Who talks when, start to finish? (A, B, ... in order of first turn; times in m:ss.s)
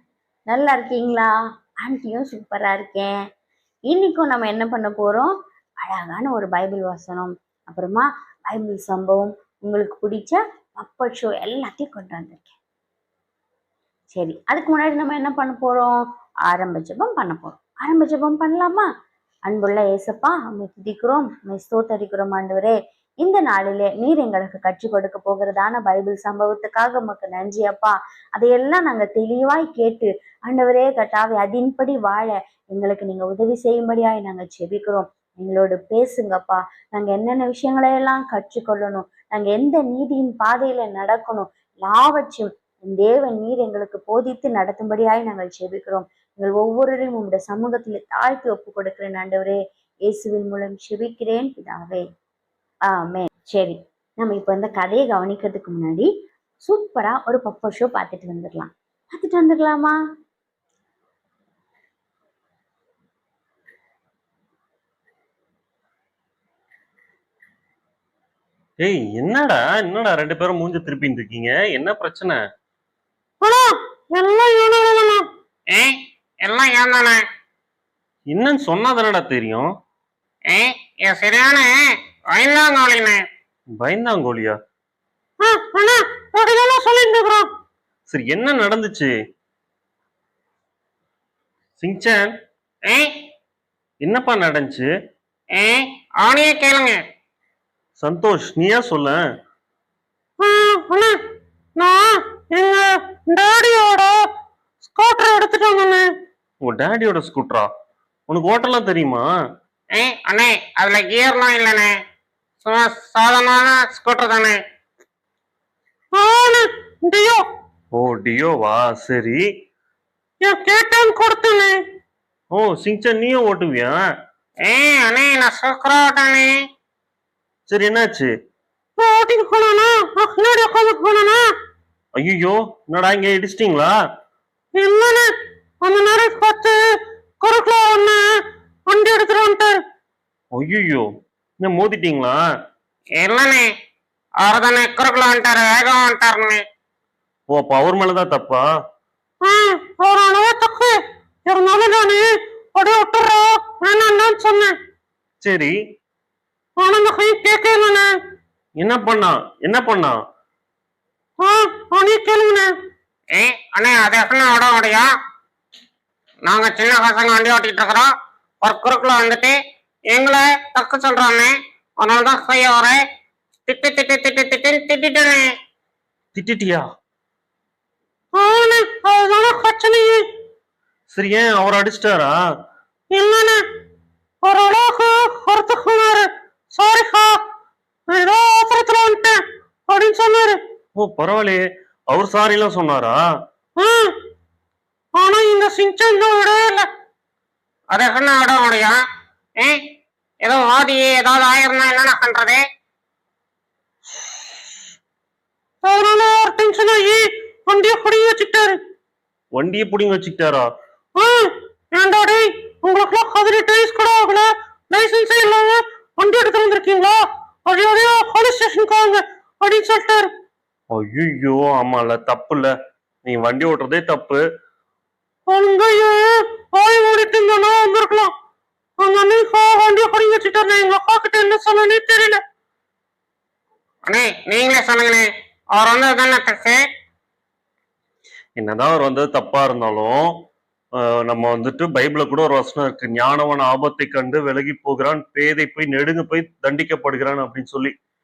0:00.5-0:03.1 A
0:03.9-0:12.6 A
0:14.1-0:18.9 A
0:19.5-0:52.0 A
0:52.9-0:56.1 A
0:56.6-1:00.0 A
1:08.8-1:12.4 B
1:13.4-1:15.2 C
1:15.7-1:17.2 D
1:18.3-1:19.6 B
1:20.5-1:21.7 D
1:22.3-1:23.2 D
1:23.8-1:24.6 B
1:25.4-1:27.5 C
1:28.1-1:29.1 B
1:31.8-1:32.3 B
1:34.0-1:34.9 B
1:35.5-1:37.0 D
1:38.0-1:39.2 B
1:40.4-1:41.2 C
1:41.8-1:44.1 C
1:44.9-1:46.1 C
1:46.6-1:47.7 B
1:48.3-1:49.2 B
1:50.0-1:51.9 D
1:52.6-1:54.6 D
1:56.1-1:57.4 C
1:57.9-1:59.4 B
2:00.4-2:01.8 C
2:02.5-2:03.9 B
2:04.6-2:06.5 D
2:07.7-2:08.3 B
2:09.0-2:11.4 C
2:12.2-2:13.9 B
2:14.7-2:15.3 C
2:15.8-2:18.2 C
2:18.9-2:19.8 C
2:20.5-2:21.0 B
2:21.6-2:22.4 B
2:23.2-2:23.6 D
2:24.4-2:26.6 D
2:27.5-2:28.6 B
2:29.4-2:34.7 C
2:35.4-2:35.7 B
2:36.8-2:38.1 C
2:38.8-2:40.1 B
2:41.4-2:42.7 C
2:43.3-2:45.0 D
2:46.4-2:48.1 D
2:48.6-2:49.5 D
2:50.1-2:53.0 D
2:53.7-2:55.5 D
2:56.3-2:56.8 B
2:58.3-3:00.3 C
3:01.1-3:02.4 B
3:03.1-3:03.6 C
3:04.4-3:07.4 C
3:08.1-3:10.6 C
3:11.0-3:13.2 B
3:13.8-3:14.1 C
3:15.1-3:16.9 C
3:17.9-3:18.9 D
3:20.4-3:22.6 D
3:24.1-3:24.7 C
3:25.8-3:28.8 C
3:29.5-3:30.6 B
3:31.2-3:40.3 C
3:40.9-3:42.7 B
3:43.2-3:44.4 B
3:45.5-3:48.3 C
3:49.0-3:52.4 C
3:54.1-3:56.8 D
3:58.6-4:00.4 B
4:01.0-4:07.9 B